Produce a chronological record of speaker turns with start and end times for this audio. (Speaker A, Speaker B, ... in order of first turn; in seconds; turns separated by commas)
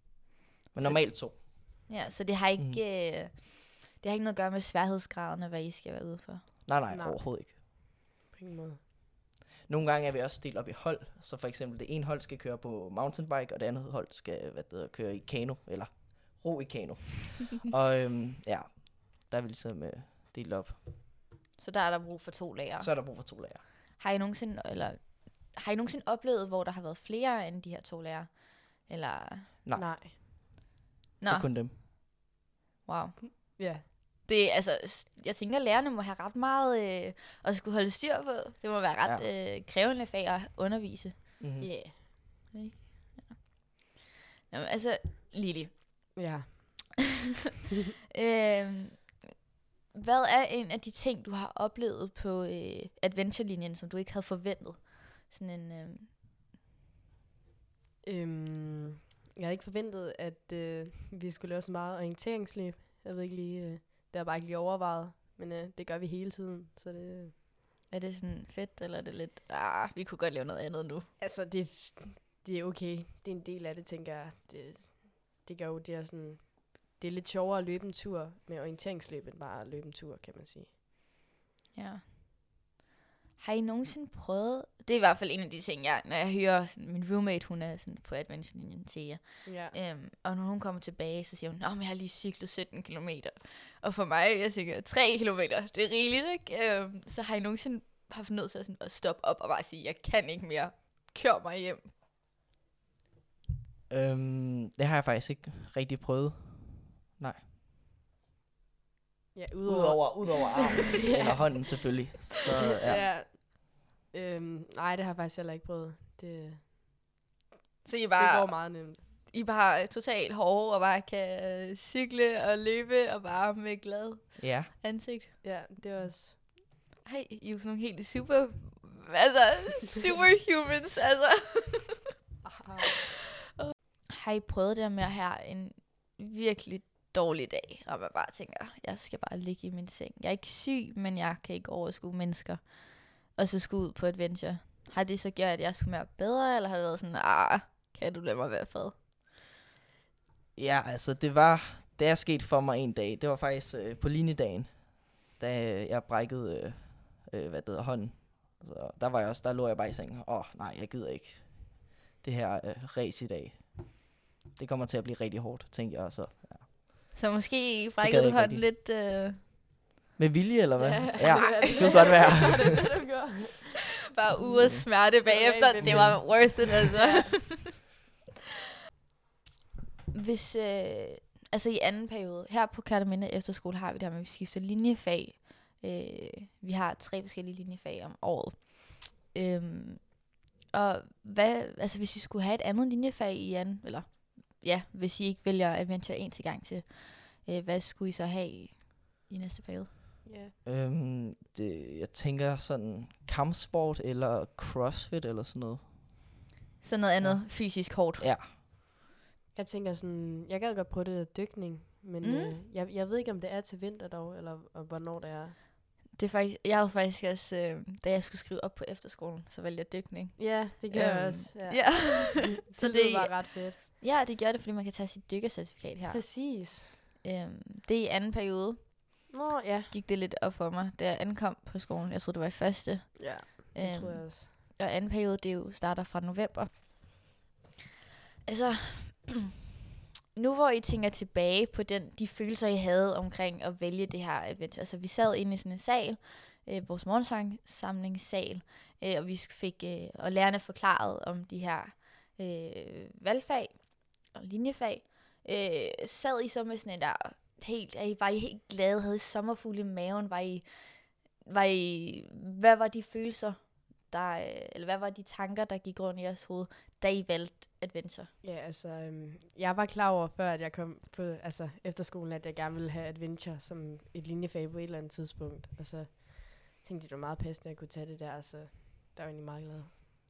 Speaker A: 0.7-1.9, Speaker B: 0.8-6.5, Speaker A: 6.7-7.5, Speaker C: 6.9-7.8, Speaker C: 8.3-8.8, Speaker A: 9.7-20.8, Speaker B: 21.6-29.6, Speaker A: 22.8-23.6, Speaker C: 29.8-30.2, Speaker B: 31.2-31.5, Speaker A: 31.3-31.8, Speaker B: 32.9-33.7, Speaker C: 33.3-33.9, Speaker B: 34.3-41.6, Speaker A: 41.4-41.7, Speaker C: 41.6-41.9, Speaker B: 42.5-44.0, Speaker B: 44.5-46.2, Speaker C: 46.2-46.9, Speaker B: 48.1-49.2, Speaker B: 49.9-56.1, Speaker C: 58.0-67.3, Speaker B: 67.9-71.1, Speaker C: 71.2-80.7, Speaker B: 81.7-82.0, Speaker B: 83.4-101.9, Speaker C: 89.4-89.8, Speaker A: 103.9-107.4, Speaker C: 109.3-111.9, Speaker A: 109.7-113.1, Speaker C: 112.8-117.1, Speaker B: 117.8-125.3, Speaker C: 118.2-119.1, Speaker A: 124.4-124.7, Speaker C: 125.4-126.4, Speaker B: 127.0-132.2, Speaker C: 132.4-132.9, Speaker B: 133.6-149.0, Speaker A: 150.6-167.1, Speaker B: 167.2-169.4, Speaker A: 168.0-168.7, Speaker A: 170.2-172.7, Speaker C: 170.8-173.8, Speaker B: 171.5-171.9, Speaker B: 174.1-177.8, Speaker A: 174.6-174.9, Speaker C: 175.2-176.4, Speaker A: 175.8-176.7, Speaker C: 176.9-177.7, Speaker B: 180.1-199.9, Speaker C: 200.2-200.6, Speaker A: 200.6-206.4, Speaker B: 206.8-208.3, Speaker A: 207.2-208.5, Speaker C: 209.6-215.6, Speaker B: 212.2-212.6, Speaker B: 216.1-226.5, Speaker C: 220.4-223.8, Speaker C: 226.1-227.0, Speaker B: 227.2-229.3, Speaker C: 229.3-229.9, Speaker B: 229.9-237.3, Speaker C: 233.2-234.5, Speaker B: 238.5-239.5, Speaker B: 240.3-268.3, Speaker C: 268.4-279.9